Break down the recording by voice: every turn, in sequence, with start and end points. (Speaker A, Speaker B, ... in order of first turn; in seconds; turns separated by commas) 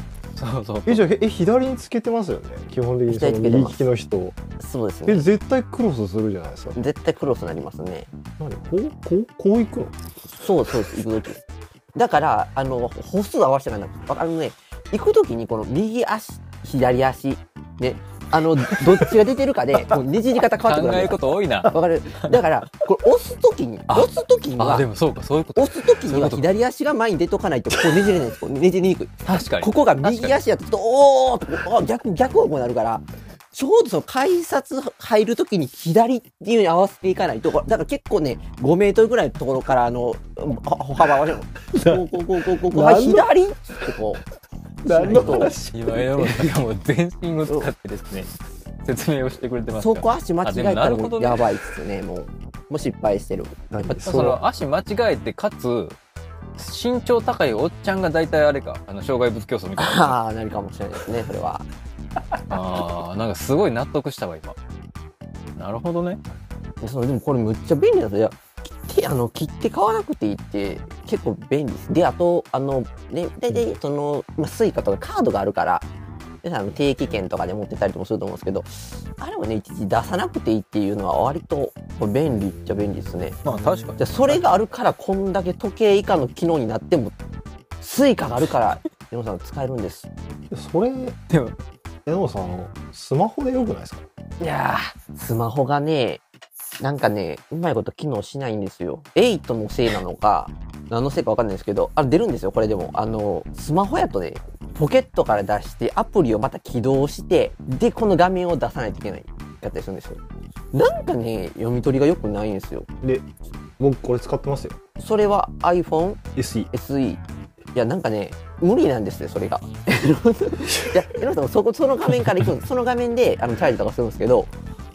Speaker A: 0.3-1.0, Speaker B: 0.8-4.4, Speaker C: 3.1-3.8, Speaker C: 4.6-5.2, Speaker B: 5.0-6.8, Speaker C: 6.8-8.1, Speaker B: 8.4-9.9, Speaker C: 10.4-11.4, Speaker C: 11.9-24.9, Speaker A: 20.6-22.4, Speaker A: 23.9-26.5, Speaker C: 25.6-44.2, Speaker A: 29.2-30.3, Speaker B: 41.7-42.0, Speaker B: 42.6-43.3, Speaker B: 44.8-46.5, Speaker C: 44.9-45.5, Speaker A: 45.1-48.3, Speaker A: 48.8-51.5, Speaker C: 49.8-54.2, Speaker B: 53.7-54.4, Speaker A: 54.0-56.0, Speaker A: 56.6-60.1, Speaker C: 59.8-61.6, Speaker A: 62.5-64.5, Speaker A: 65.6-66.2, Speaker C: 66.8-75.9, Speaker C: 76.4-83.4, Speaker B: 82.5-84.0, Speaker A: 83.4-84.4, Speaker C: 84.0-87.1, Speaker C: 87.8-90.1, Speaker B: 90.5-91.2, Speaker A: 91.3-91.5, Speaker B: 92.0-94.0, Speaker C: 94.4-96.2, Speaker C: 96.8-110.2, Speaker C: 110.7-112.9, Speaker B: 113.8-114.8, Speaker C: 115.0-117.2, Speaker B: 116.3-116.7, Speaker C: 117.7-124.5